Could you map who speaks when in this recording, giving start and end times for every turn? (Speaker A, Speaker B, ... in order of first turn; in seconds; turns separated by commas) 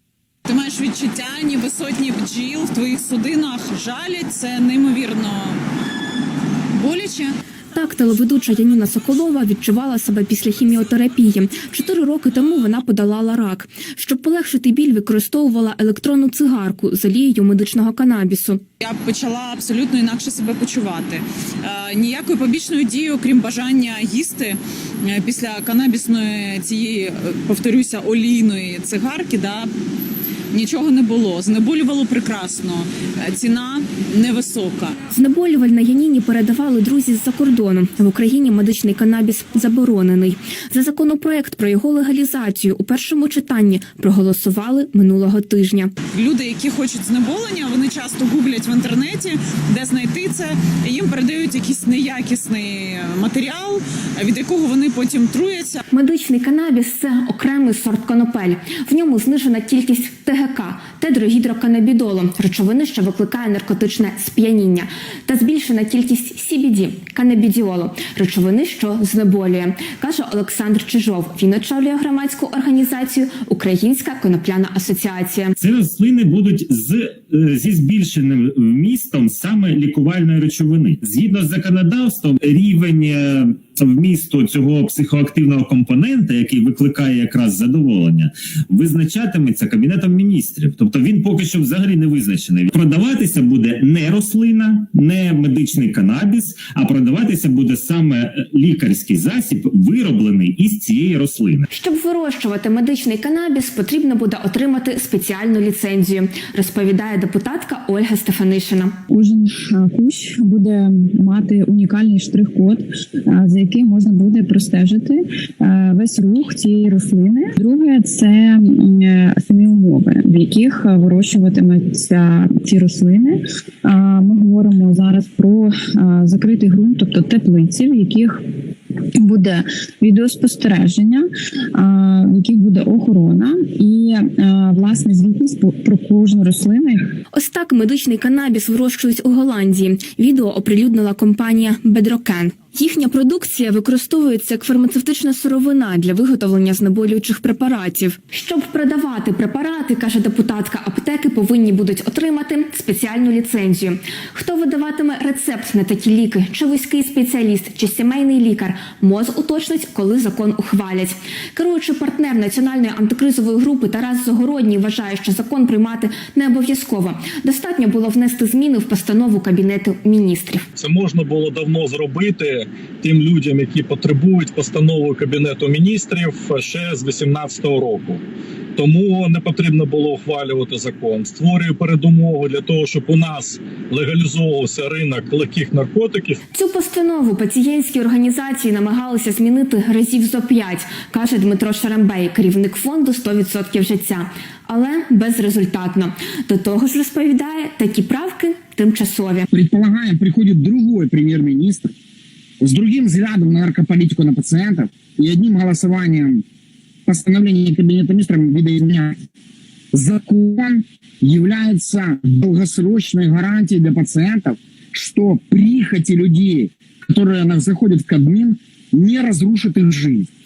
Speaker A: 0.5-5.6, Speaker A: 6.8-7.3, Speaker B: 7.7-18.6, Speaker A: 18.8-29.7, Speaker A: 30.5-35.0, Speaker B: 35.1-45.9, Speaker A: 46.1-55.8, Speaker B: 55.9-75.5, Speaker C: 75.6-101.7, Speaker B: 101.7-109.0, Speaker D: 109.1-128.4, Speaker D: 129.2-137.1, Speaker B: 137.3-170.7, Speaker E: 170.8-178.2, Speaker E: 178.8-186.4, Speaker B: 186.5-199.5, Speaker F: 199.5-201.9, Speaker F: 202.6-206.4, Speaker F: 207.1-209.2, Speaker F: 209.9-220.3